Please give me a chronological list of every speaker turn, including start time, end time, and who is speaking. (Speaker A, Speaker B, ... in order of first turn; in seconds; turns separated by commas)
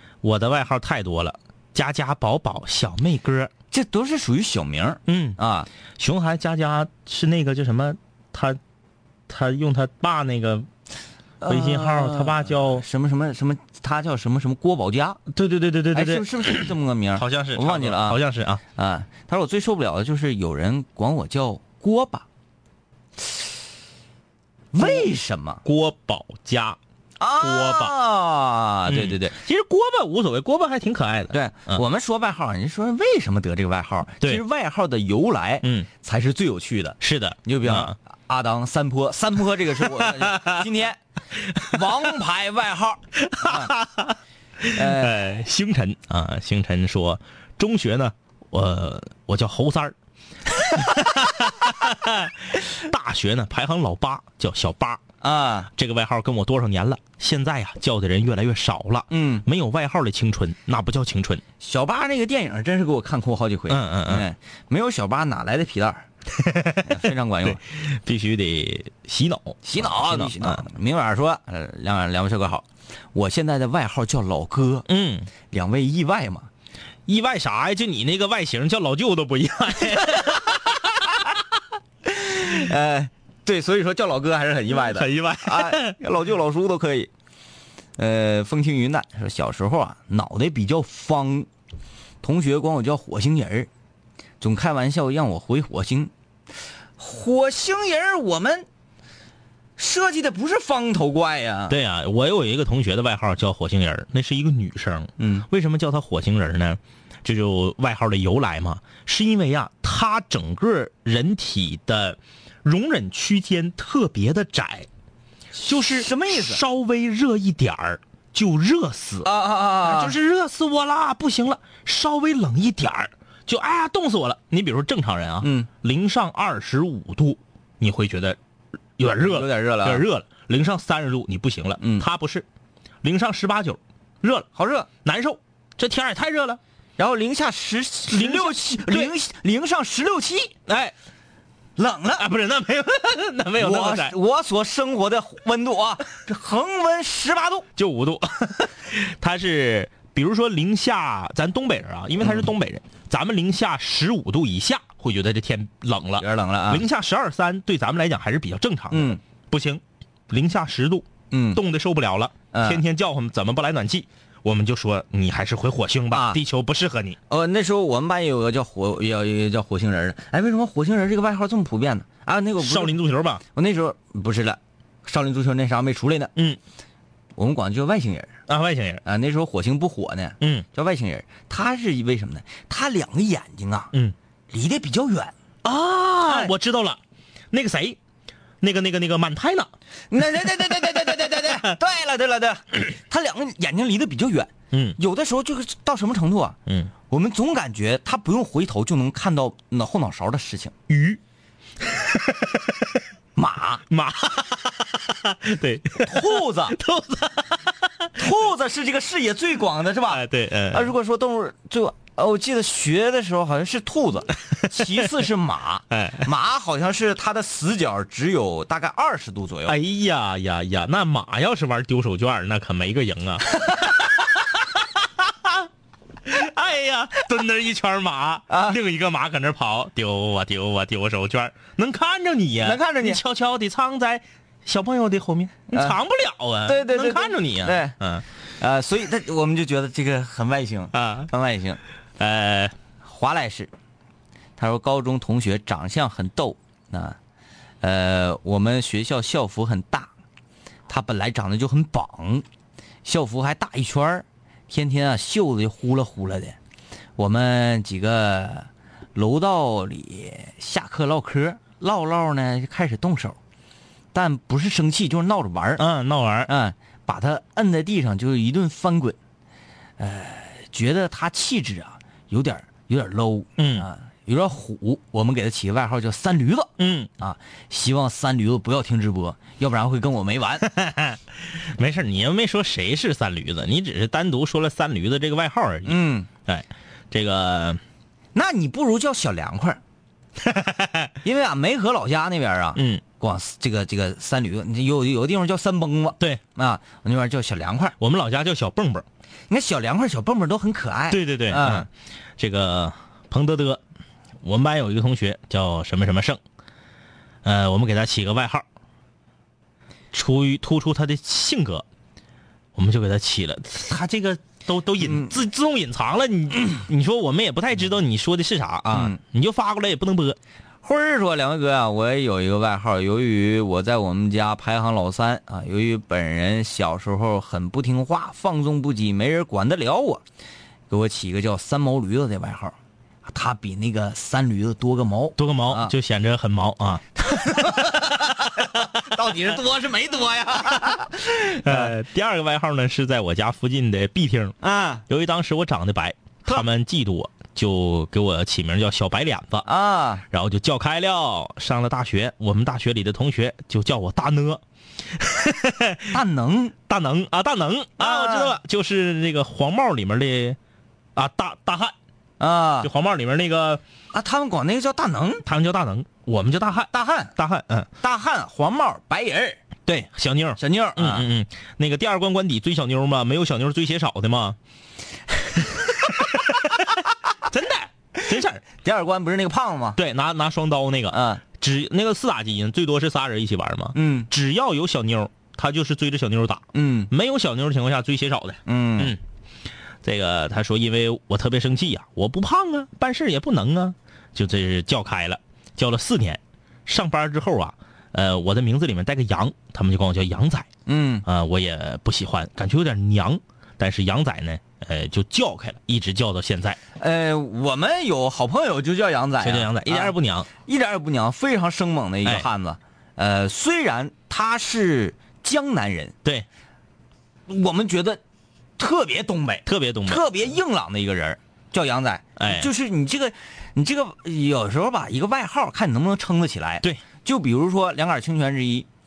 Speaker A: 0.2-3.5, Speaker B: 3.7-5.7, Speaker A: 5.1-5.4, Speaker A: 6.0-8.6, Speaker A: 9.3-10.7, Speaker B: 11.4-15.2, Speaker A: 11.4-12.8, Speaker A: 15.3-18.6, Speaker B: 15.9-18.2, Speaker B: 18.7-22.2, Speaker B: 24.7-25.6, Speaker A: 24.8-25.1, Speaker A: 25.6-26.8, Speaker B: 27.2-29.3, Speaker A: 27.4-27.9, Speaker A: 28.9-31.8, Speaker B: 31.3-41.0, Speaker A: 35.6-35.9, Speaker A: 37.0-38.0, Speaker A: 39.8-40.6, Speaker B: 41.6-43.7, Speaker A: 43.1-49.9, Speaker B: 44.7-45.2, Speaker A: 50.5-55.0, Speaker B: 55.2-55.7, Speaker A: 55.7-61.4, Speaker B: 59.1-59.4, Speaker B: 61.6-66.1, Speaker A: 63.7-64.2, Speaker A: 66.3-70.6, Speaker B: 66.8-67.6, Speaker B: 69.6-74.9, Speaker A: 74.9-75.3, Speaker B: 75.5-76.5, Speaker A: 77.1-81.3, Speaker B: 82.0-87.1, Speaker A: 84.7-86.0, Speaker B: 88.0-91.5, Speaker B: 92.2-93.7, Speaker B: 94.4-96.1, Speaker B: 97.0-98.7, Speaker B: 99.8-101.8, Speaker A: 101.7-114.9, Speaker B: 105.2-105.5, Speaker B: 115.6-116.6, Speaker A: 115.6-119.3, Speaker B: 119.2-120.2, Speaker A: 119.8-128.4, Speaker B: 125.4-125.7, Speaker A: 129.0-132.4, Speaker B: 129.2-130.0, Speaker B: 131.8-132.1, Speaker A: 133.0-134.5, Speaker B: 134.5-134.9, Speaker A: 135.0-136.6, Speaker B: 137.0-140.5, Speaker A: 138.1-139.1, Speaker A: 140.7-140.9, Speaker B: 141.8-142.2, Speaker A: 142.2-144.2, Speaker B: 143.6-147.7, Speaker A: 147.8-167.2, Speaker B: 156.2-156.8, Speaker B: 158.9-159.2, Speaker B: 161.3-161.6, Speaker B: 162.5-162.8, Speaker B: 166.1-166.4, Speaker B: 167.3-173.0, Speaker A: 172.6-173.4, Speaker B: 173.5-176.3, Speaker B: 177.4-178.3, Speaker A: 178.5-179.0, Speaker B: 179.0-183.9, Speaker A: 180.4-180.7, Speaker B: 184.5-185.3, Speaker A: 185.6-187.0, Speaker B: 186.2-186.5, Speaker A: 187.5-188.0, Speaker A: 188.6-189.7, Speaker B: 190.1-196.6, Speaker A: 191.2-191.7, Speaker A: 194.7-195.0, Speaker A: 196.7-196.9, Speaker B: 197.1-200.7, Speaker A: 200.9-201.2, Speaker A: 201.8-203.0, Speaker B: 203.3-203.8, Speaker A: 203.9-208.2, Speaker B: 206.0-206.8, Speaker B: 208.2-219.8, Speaker A: 210.1-210.9, Speaker A: 214.7-215.1, Speaker A: 215.9-216.3, Speaker A: 219.7-225.7, Speaker A: 226.2-238.2, Speaker B: 228.5-228.8, Speaker B: 232.6-233.2, Speaker B: 235.7-236.0, Speaker B: 236.7-238.0, Speaker B: 238.6-241.8, Speaker A: 240.9-241.3, Speaker A: 242.2-242.7, Speaker B: 243.0-243.7, Speaker B: 244.6-247.2, Speaker B: 247.8-250.1, Speaker B: 250.9-252.4, Speaker B: 253.0-256.6, Speaker B: 257.2-263.4, Speaker B: 264.1-265.8, Speaker A: 265.8-266.5, Speaker B: 266.5-269.2, Speaker B: 270.0-280.7, Speaker A: 273.6-273.9, Speaker A: 276.8-277.1, Speaker A: 280.6-287.8, Speaker B: 285.9-286.3, Speaker B: 288.3-289.8, Speaker A: 290.4-291.1, Speaker B: 291.2-297.9, Speaker A: 292.7-293.0, Speaker A: 298.0-299.1, Speaker B: 299.5-301.9, Speaker A: 301.1-303.8, Speaker A: 304.4-306.4, Speaker A: 307.4-308.6, Speaker A: 310.1-311.8, Speaker A: 312.7-320.4, Speaker B: 315.0-315.3, Speaker B: 318.9-319.2, Speaker B: 320.8-330.2, Speaker B: 330.9-332.7, Speaker B: 333.2-335.9, Speaker A: 335.4-339.2, Speaker B: 337.2-341.9, Speaker A: 341.6-344.6, Speaker B: 344.6-345.0, Speaker A: 345.1-349.7, Speaker B: 349.6-350.2, Speaker A: 350.3-356.2, Speaker B: 356.1-356.7, Speaker A: 356.9-360.6, Speaker B: 358.0-358.6, Speaker A: 361.1-361.9, Speaker B: 362.4-362.9, Speaker A: 362.8-363.8, Speaker B: 364.1-365.4, Speaker A: 365.4-367.9, Speaker B: 366.9-367.3, Speaker B: 368.0-369.6, Speaker A: 369.9-374.6, Speaker B: 370.6-371.3, Speaker A: 375.6-378.6, Speaker B: 378.7-380.0, Speaker A: 379.9-389.2, Speaker B: 381.1-381.4, Speaker B: 383.9-384.3, Speaker B: 386.7-387.1, Speaker B: 388.6-389.1, Speaker A: 390.0-400.7, Speaker B: 400.9-401.2, Speaker A: 401.2-406.8, Speaker B: 407.0-416.1, Speaker A: 409.4-410.5, Speaker B: 417.5-418.2, Speaker B: 418.8-428.9, Speaker A: 419.6-420.2, Speaker A: 422.4-422.7